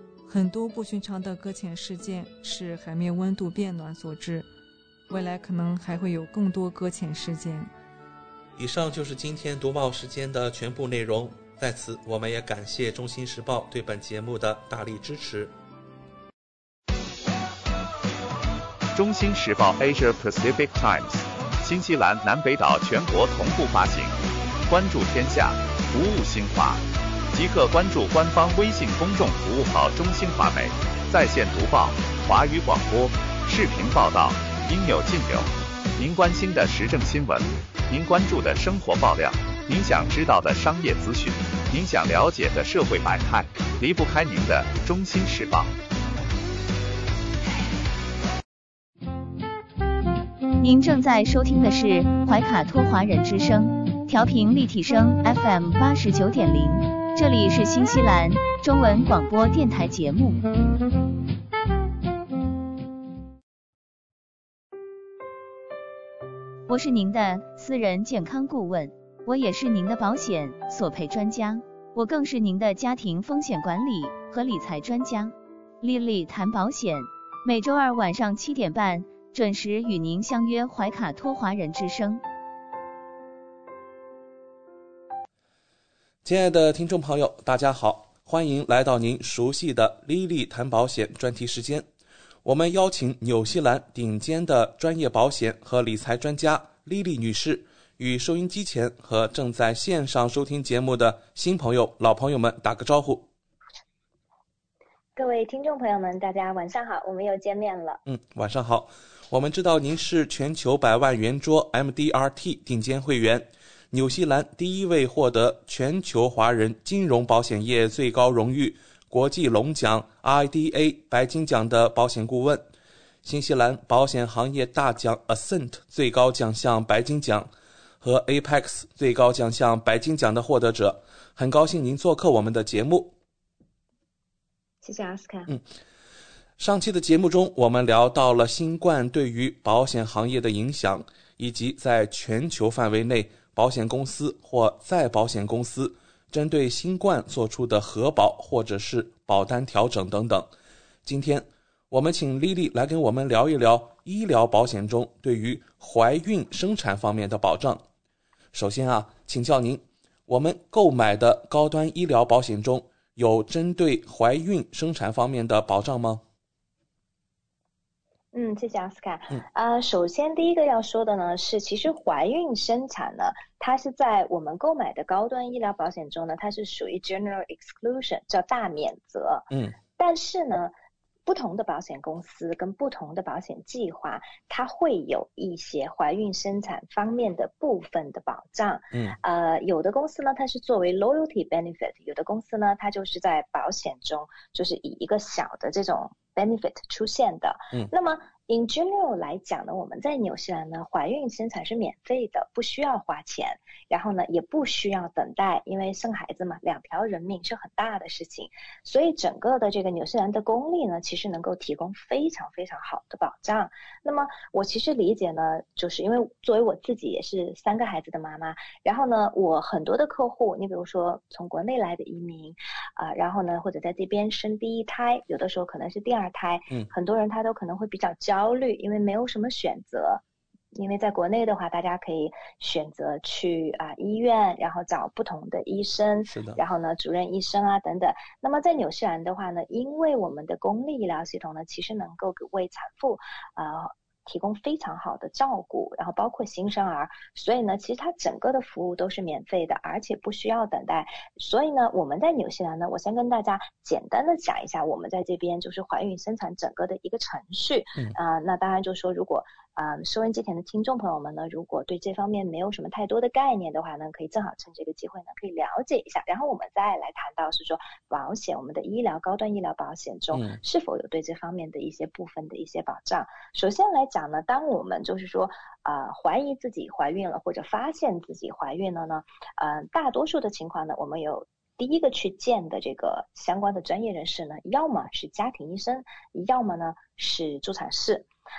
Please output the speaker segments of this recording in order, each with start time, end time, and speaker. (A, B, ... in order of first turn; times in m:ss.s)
0:00.3-0:04.5 A
0:05.1-0:07.7 A
0:08.6-0:15.5 B
0:18.9-0:45.7 C
0:50.6-1:00.4 D
1:06.7-1:22.2 D
1:26.2-1:31.9 B
1:32.4-1:43.3 B
1:45.2-1:48.0 E
1:48.0-2:02.7 B
2:03.2-2:13.1 B
2:14.8-2:15.5 E
2:16.6-2:30.5 B
2:31.0-2:37.8 B
2:38.5-2:46.2 B
2:48.3-3:00.7 E
2:59.5-2:59.8 B
3:01.2-3:50.2 E
3:50.7-4:48.3 E
3:56.3-3:56.6 B
4:30.3-4:30.6 B